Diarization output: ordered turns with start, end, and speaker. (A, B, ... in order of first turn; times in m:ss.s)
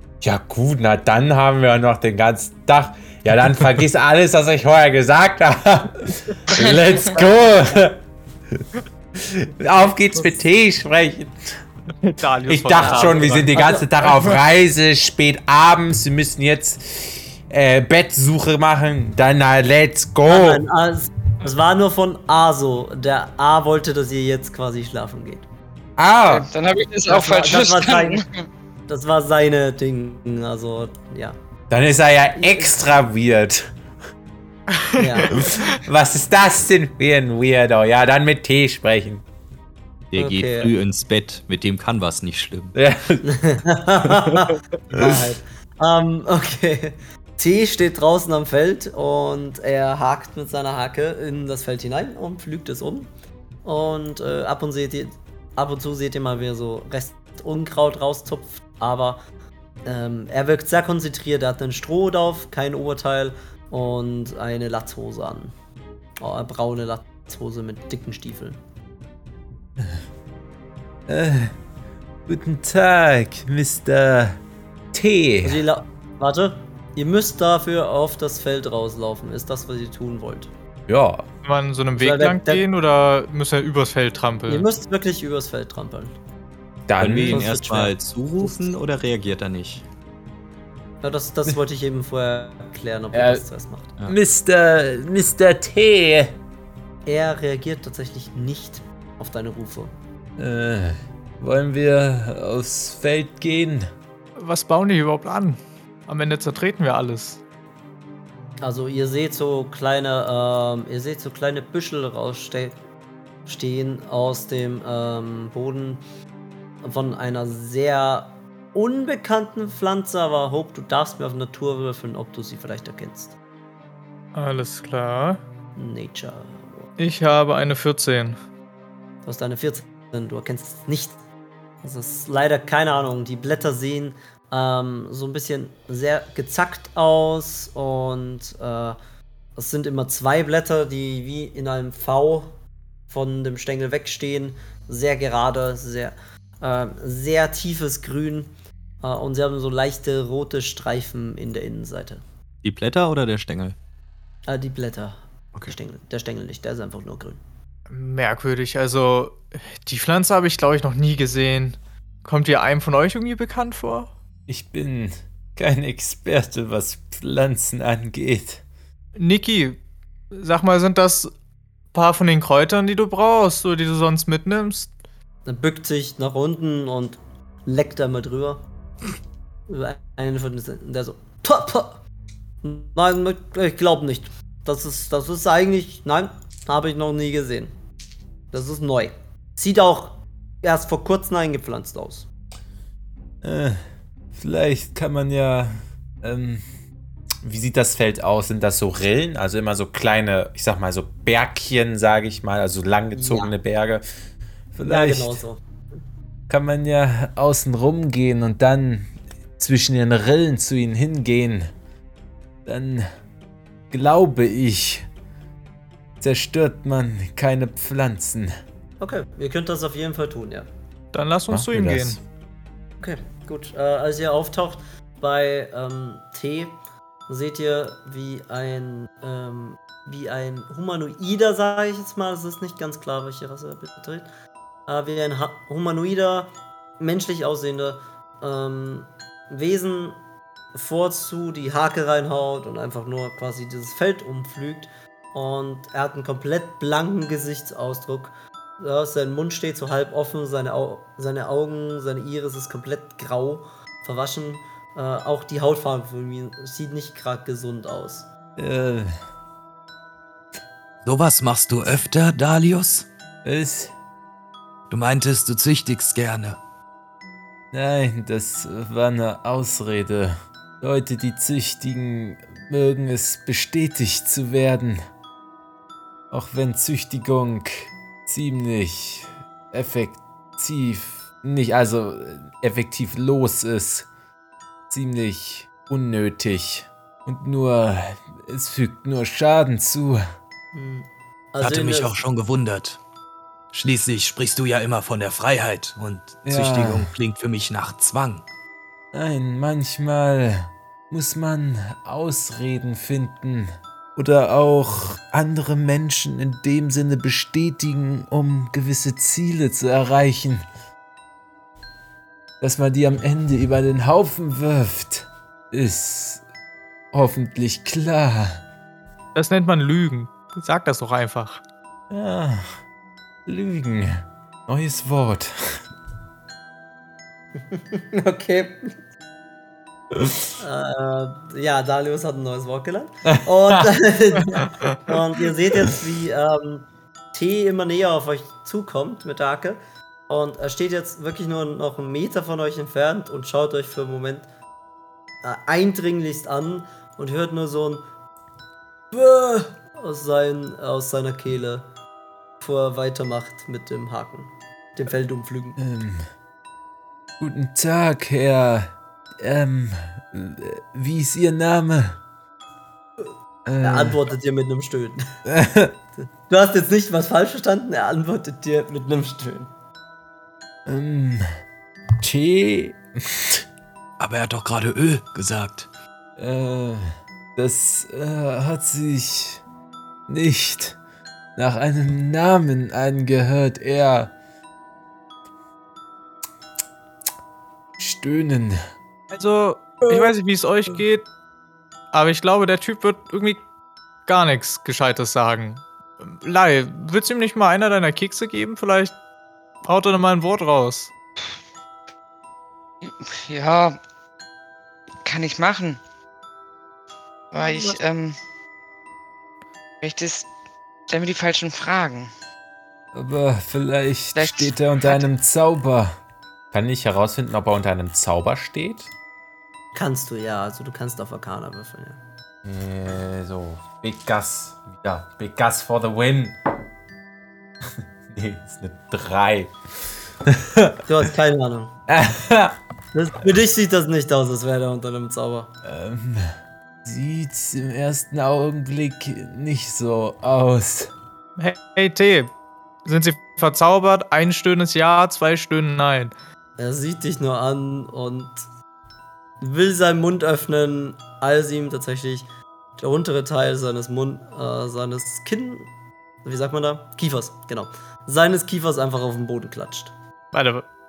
0:00.2-0:08.0 A
0:06.5-0:06.8 B
0:09.1-0:11.6 A
0:12.0-0:14.3 C
0:12.5-0:20.6 A
0:12.8-0:13.8 D
0:20.3-0:25.4 D
0:26.0-0:26.5 A
0:26.3-0:28.4 B
0:27.1-0:28.2 D
0:28.9-0:31.4 D
0:31.7-0:33.7 A
0:32.4-0:32.8 D
0:34.7-0:35.8 C
0:35.0-0:35.4 D
0:35.3-0:39.2 A
0:40.1-0:42.7 E
0:40.2-0:40.7 D
0:42.7-0:43.3 A
0:43.2-0:53.1 D
0:53.6-0:59.2 D
0:59.8-1:05.5 D
1:06.2-1:08.6 D
1:11.1-1:11.5 A
1:12.3-1:14.4 A
1:14.9-1:15.6 A
1:15.4-1:20.5 D
1:20.9-1:21.2 A
1:21.4-1:24.7 C
1:22.0-1:22.6 D
1:24.5-1:26.2 D
1:26.9-1:27.7 A
1:27.0-1:29.8 E
1:27.3-1:28.7 D
1:31.0-1:33.9 D
1:33.1-1:33.4 A
1:34.0-1:36.3 A
1:37.0-1:39.9 D
1:40.4-1:43.9 A
1:44.4-1:47.4 C
1:48.6-1:52.8 D
1:53.4-1:56.0 D
1:56.8-2:03.4 D
2:04.3-2:05.4 C
2:05.8-2:06.9 D
2:07.0-2:08.4 C
2:09.2-2:11.2 D
2:11.8-2:19.0 D
2:19.6-2:22.5 D
2:23.1-2:28.5 D
2:29.0-2:32.2 D
2:32.6-2:33.8 E
2:34.5-2:37.4 D
2:37.9-2:44.1 C
2:44.5-2:48.6 A
2:49.2-2:49.8 C
2:50.3-2:51.3 C
2:51.9-2:54.9 C
2:55.4-2:58.6 D
2:59.7-3:02.0 D
3:02.6-3:07.7 D
3:08.5-3:12.3 D
3:13.4-3:13.8 A
3:14.3-3:16.6 A
3:17.4-3:24.0 A
3:23.1-3:23.5 D
3:24.7-3:25.4 A
3:24.8-3:25.6 D
3:26.5-3:31.7 A
3:32.6-3:33.0 A
3:33.9-3:35.0 A
3:36.2-3:38.5 A
3:39.0-3:40.7 D
3:41.1-3:42.2 C
3:41.5-3:42.2 A
3:43.0-3:46.8 D
3:47.3-3:54.3 D
3:54.9-4:00.2 D
4:00.7-4:18.3 D
4:18.6-4:19.1 A
4:21.0-4:23.1 F
4:23.4-4:23.9 A
4:24.9-4:26.6 F
4:27.7-4:35.0 A
4:36.3-4:44.1 A
4:44.9-4:50.2 A
4:50.7-4:52.2 D
4:51.6-4:53.0 F
4:53.7-4:58.4 F
4:56.5-4:57.1 A
4:59.1-5:10.6 A
5:12.6-5:16.4 A
5:17.1-5:18.6 A
5:19.3-5:21.6 C
5:22.1-5:22.7 A
5:23.4-5:25.8 A
5:27.6-5:28.9 D
5:30.6-5:44.4 D
5:33.3-5:33.9 A
5:45.4-5:48.0 D
5:49.1-5:51.9 D
5:52.6-5:55.8 D
5:55.8-5:56.3 A
5:57.4-6:02.2 A
6:03.6-6:04.2 A
6:03.8-6:05.4 D
6:05.5-6:05.9 A
6:06.5-6:09.7 D
6:10.8-6:11.4 A
6:12.2-6:13.6 A
6:14.2-6:15.9 F
6:16.4-6:19.6 A
6:20.3-6:21.0 A
6:21.6-6:24.3 A
6:28.0-6:28.8 A
6:29.3-6:31.2 C
6:32.1-6:33.6 C
6:34.3-6:39.1 C
6:39.8-6:41.1 C
6:43.0-6:44.0 B
6:45.2-6:46.0 B
6:47.5-6:48.4 B
6:47.6-6:48.0 C
6:50.0-6:50.5 B
6:51.1-6:52.3 B
6:53.1-6:56.2 A
6:54.3-6:55.2 B
6:56.7-6:59.1 A
6:59.9-7:02.2 D
7:02.6-7:06.6 A
7:08.3-7:09.7 A
7:10.4-7:11.0 A
7:11.0-7:11.9 D
7:12.1-7:12.8 A
7:13.1-7:15.7 D
7:15.8-7:16.5 A
7:17.0-7:21.1 A
7:21.6-7:22.5 C
7:23.0-7:26.3 C
7:26.8-7:28.6 D
7:29.6-7:32.4 D
7:33.0-7:35.9 D
7:36.4-7:40.1 D
7:40.5-7:40.9 C